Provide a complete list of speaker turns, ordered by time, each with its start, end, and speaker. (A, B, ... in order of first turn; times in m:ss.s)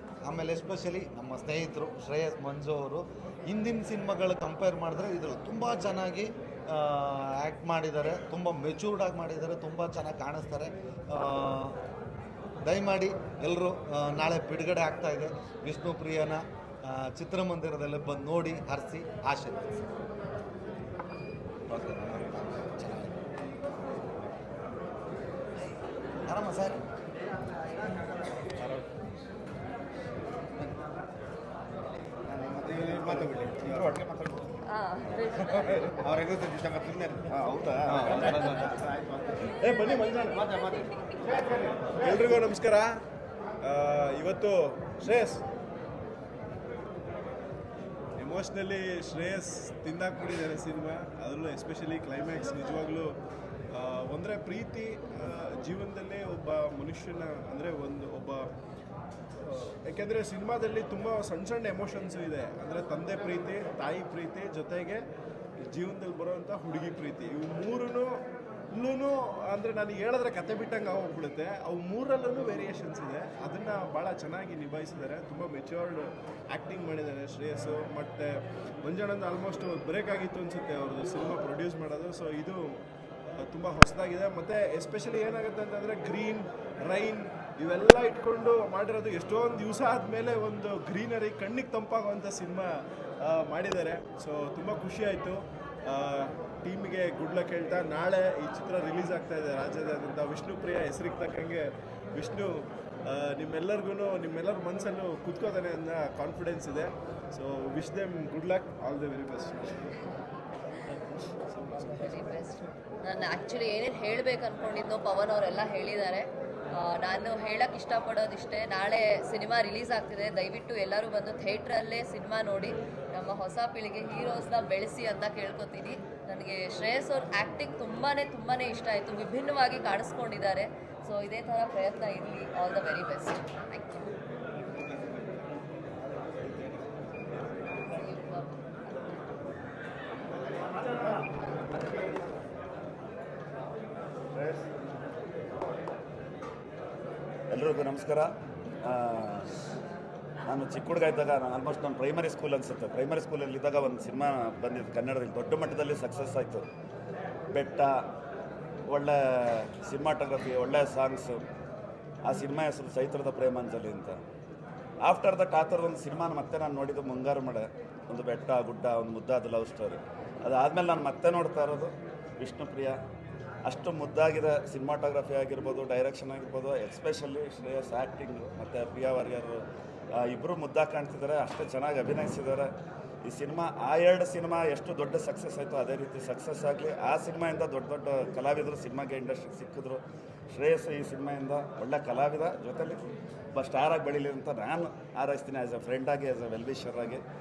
0:00.2-0:11.8 A
0:12.6-0:19.8 A
0:21.7-0:23.1 A
0:26.2-0:26.8 A
0:32.5-0:34.0 B
0:34.7-0:35.6 C
0:37.3-0:38.5 B
0:37.9-0:38.5 A
0:42.0-0:43.0 D
0:43.6-0:45.4 D
0:48.2-0:53.1 D
0:53.7-0:58.5 D
0:59.5-1:05.0 D
1:05.7-1:08.2 D
1:08.7-1:22.8 D
1:23.4-1:32.7 D
1:33.2-1:49.8 D
1:51.9-2:14.0 C
2:17.9-2:19.0 C
2:27.5-2:28.3 E
2:28.8-2:29.4 E
2:30.5-2:36.6 E
2:37.5-2:38.0 E
2:38.9-2:41.4 E
2:42.2-2:44.2 E
2:45.0-2:53.0 E
2:53.6-2:59.6 E
3:00.1-3:02.7 E
3:03.2-3:13.0 E
3:13.5-3:17.2 E